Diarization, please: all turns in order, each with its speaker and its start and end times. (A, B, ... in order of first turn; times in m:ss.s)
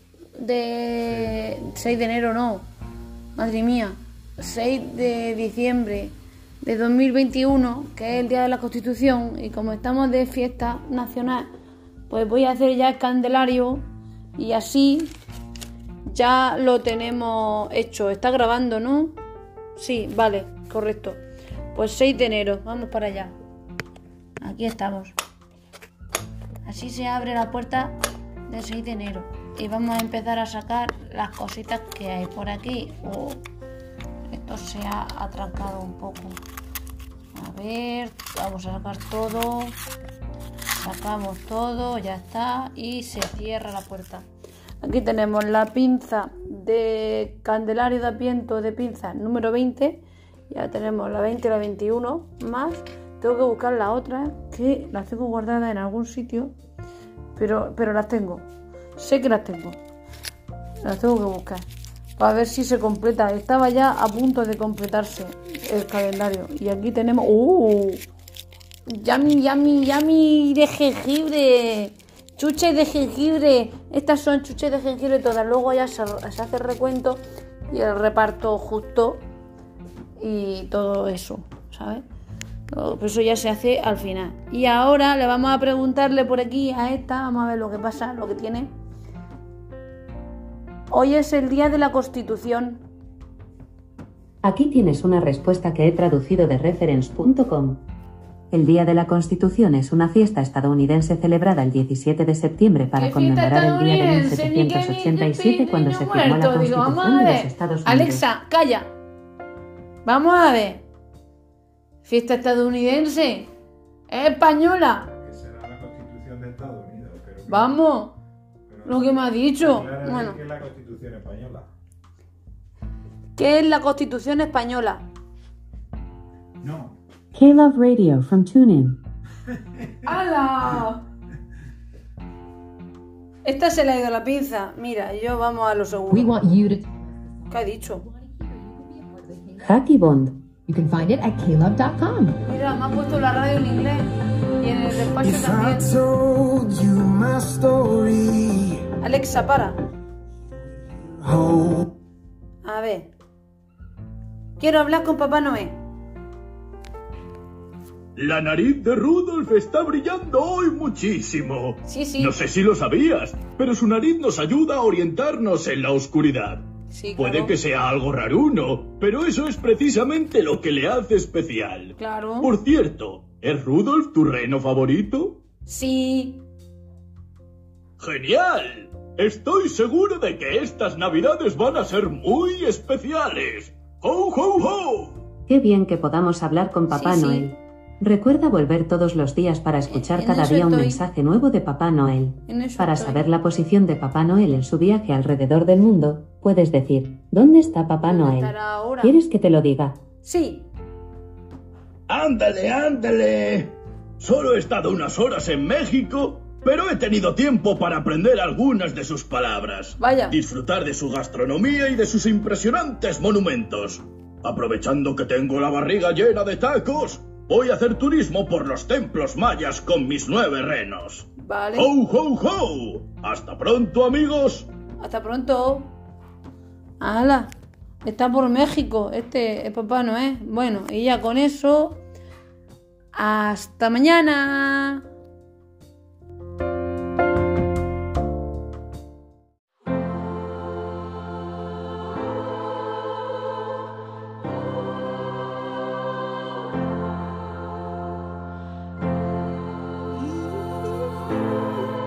0:00.4-0:02.7 A
0:03.4-0:11.5 A
0:12.1-0:13.8 A
0:14.4-0:15.1 A
0:16.1-0:19.2 A
0:19.7-0:21.2 A
0:21.7-0:23.3 A
0:24.4-0:25.1 A
0:26.6-0:28.0 A
0:28.5-0:33.4 A
0:34.3-0:36.4 A
0:37.3-0:39.8 A
0:40.8-0:44.3 A
0:44.8-0:56.5 A
0:57.4-0:59.8 A
1:00.8-1:01.6 A
1:02.2-1:08.0 A
1:08.9-1:19.2 A
1:20.2-1:22.0 A
1:22.7-1:28.7 A
1:30.9-1:32.8 A
1:34.4-1:37.8 B
1:38.5-1:48.2 B
1:42.9-1:48.9 A
1:50.0-1:50.8 A
1:52.0-1:53.5 A
1:54.1-1:55.1 A
1:55.2-1:57.7 C
1:57.5-1:58.2 A
1:58.7-2:01.7 C
1:58.8-2:00.4 A
2:03.4-2:05.1 A
2:06.6-2:07.0 C
2:07.3-2:09.0 B
2:10.0-2:11.0 A
2:13.4-2:16.4 A
2:16.1-2:17.5 D
2:17.5-2:18.0 A
2:18.3-2:19.6 D
2:19.6-2:20.4 B
2:20.7-2:22.4 D
2:22.4-2:25.9 A
2:25.2-2:28.8 E
2:29.0-2:29.8 A
2:31.0-2:31.9 E
2:32.6-2:33.1 A
2:34.6-2:35.8 A
2:38.2-2:46.6 F
2:41.8-2:42.3 A
2:46.9-2:47.6 A
2:47.2-2:55.4 F
2:52.0-2:52.5 A
2:55.7-2:56.4 A
2:58.0-3:05.2 F
3:05.5-3:20.0 B
3:06.9-3:07.5 A
3:09.9-3:11.0 A
3:12.5-3:13.3 A
3:18.0-3:19.2 A
3:20.2-3:20.7 A
3:22.1-3:44.7 F
3:30.0-3:30.4 A
3:41.4-3:41.9 A
3:45.0-3:45.9 A
3:47.0-3:47.5 A
3:48.0-3:52.0 A
3:53.1-3:55.0 A